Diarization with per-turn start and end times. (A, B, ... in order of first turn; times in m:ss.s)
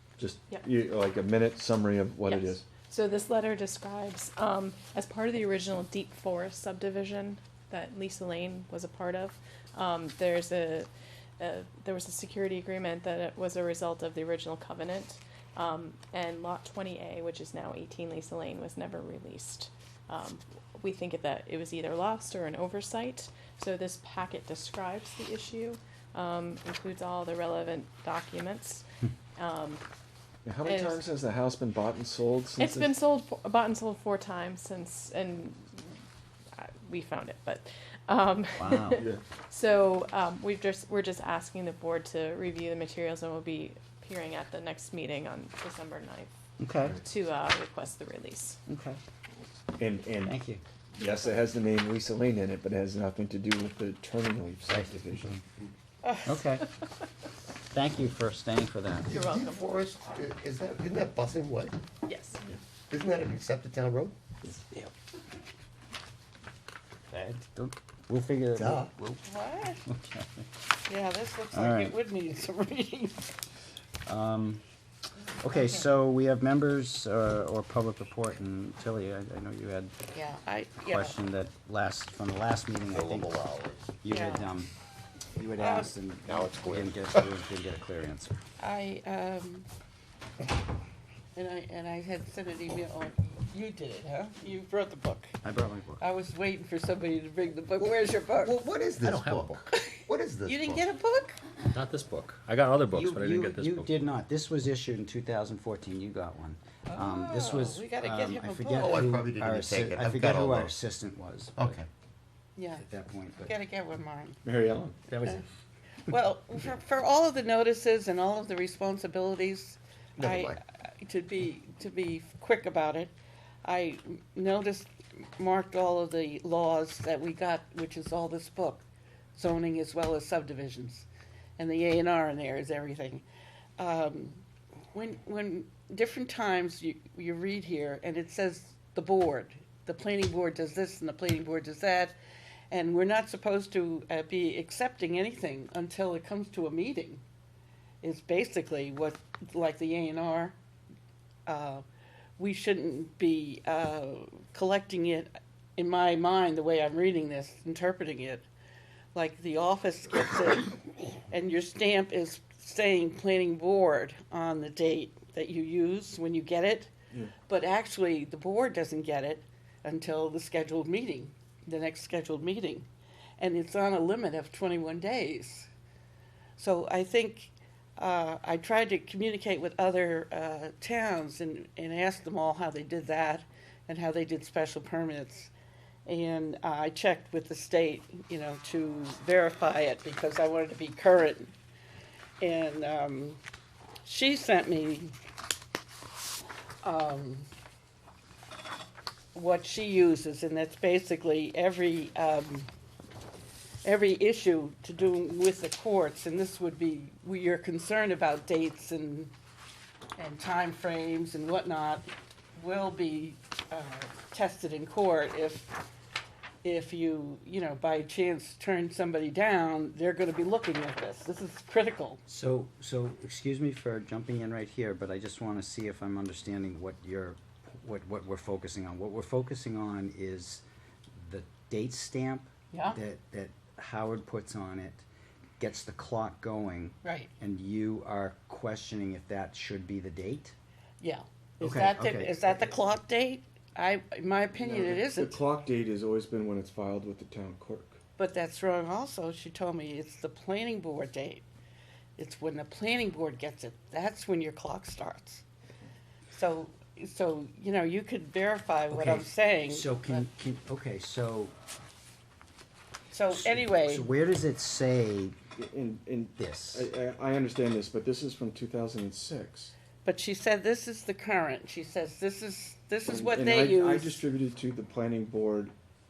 0:00.2-0:02.6 A
0:02.2-0:28.8 B
0:29.4-0:29.8 B
0:30.4-0:33.0 A
0:30.6-0:31.0 B
0:32.6-0:36.0 B
0:36.6-0:46.3 B
0:38.6-0:39.0 C
0:39.0-0:39.2 A
0:46.6-0:47.0 C
0:47.0-0:48.6 B
0:48.7-0:49.0 C
0:49.8-0:50.3 A
0:50.2-0:50.6 C
0:51.0-0:55.4 A
0:54.7-0:55.4 C
0:56.0-0:56.4 D
0:56.2-0:56.7 C
0:57.7-0:59.3 C
0:59.1-1:01.8 E
0:59.1-0:59.5 B
1:02.1-1:02.4 B
1:02.9-1:04.2 E
1:04.4-1:04.9 C
1:07.1-1:09.2 C
1:08.6-1:08.9 E
1:09.2-1:09.8 D
1:09.8-1:10.4 C
1:10.9-1:13.3 D
1:11.5-1:12.0 C
1:14.0-1:14.6 C
1:15.4-1:19.9 C
1:15.5-1:15.8 D
1:20.1-1:21.2 D
1:20.8-1:23.4 C
1:22.9-1:23.9 E
1:24.0-1:24.7 C
1:24.1-1:24.5 D
1:25.3-1:28.4 C
1:25.6-1:25.9 D
1:26.2-1:27.3 E
1:28.6-1:29.7 D
1:31.3-1:35.4 D
1:35.4-1:36.0 C
1:36.0-1:38.7 D
1:38.3-1:40.9 E
1:39.0-1:39.6 F
1:40.4-1:41.4 D
1:41.7-1:44.0 F
1:42.9-1:51.8 C
1:46.8-1:49.0 D
1:48.8-1:50.7 E
1:51.6-1:51.9 E
1:52.6-1:52.8 D
1:52.8-1:53.5 C
1:53.4-1:54.4 D
1:54.4-1:55.2 A
1:55.1-1:55.4 F
1:56.1-2:13.2 D
2:00.2-2:00.6 E
2:13.8-2:14.4 D
2:14.9-2:22.2 D
2:22.7-2:27.2 D
2:28.0-2:30.6 D
2:31.4-2:31.9 D
2:32.4-2:38.5 D
2:39.1-2:46.9 D
2:47.4-2:55.7 D
2:56.6-3:05.5 D
3:06.0-3:11.5 D
3:12.4-3:13.4 D
3:14.0-3:15.2 D
3:16.8-3:17.5 D
3:19.3-3:22.7 D
3:23.8-3:29.3 D
3:30.2-3:35.8 D
3:36.6-3:42.2 D
3:42.3-3:50.6 C
3:51.2-3:55.0 C
3:52.7-3:53.0 D
3:55.6-4:00.5 C
3:57.0-3:57.3 D
4:01.0-4:05.4 D
4:01.6-4:02.7 C
4:04.5-4:08.0 A
4:08.2-4:11.4 D
4:12.2-4:15.4 D
4:16.3-4:20.3 D
4:18.9-4:21.5 C
4:23.1-4:24.1 D
4:23.3-4:25.4 C
4:25.6-4:29.7 A
4:26.4-4:26.9 C
4:30.0-4:34.2 D
4:33.0-4:35.7 A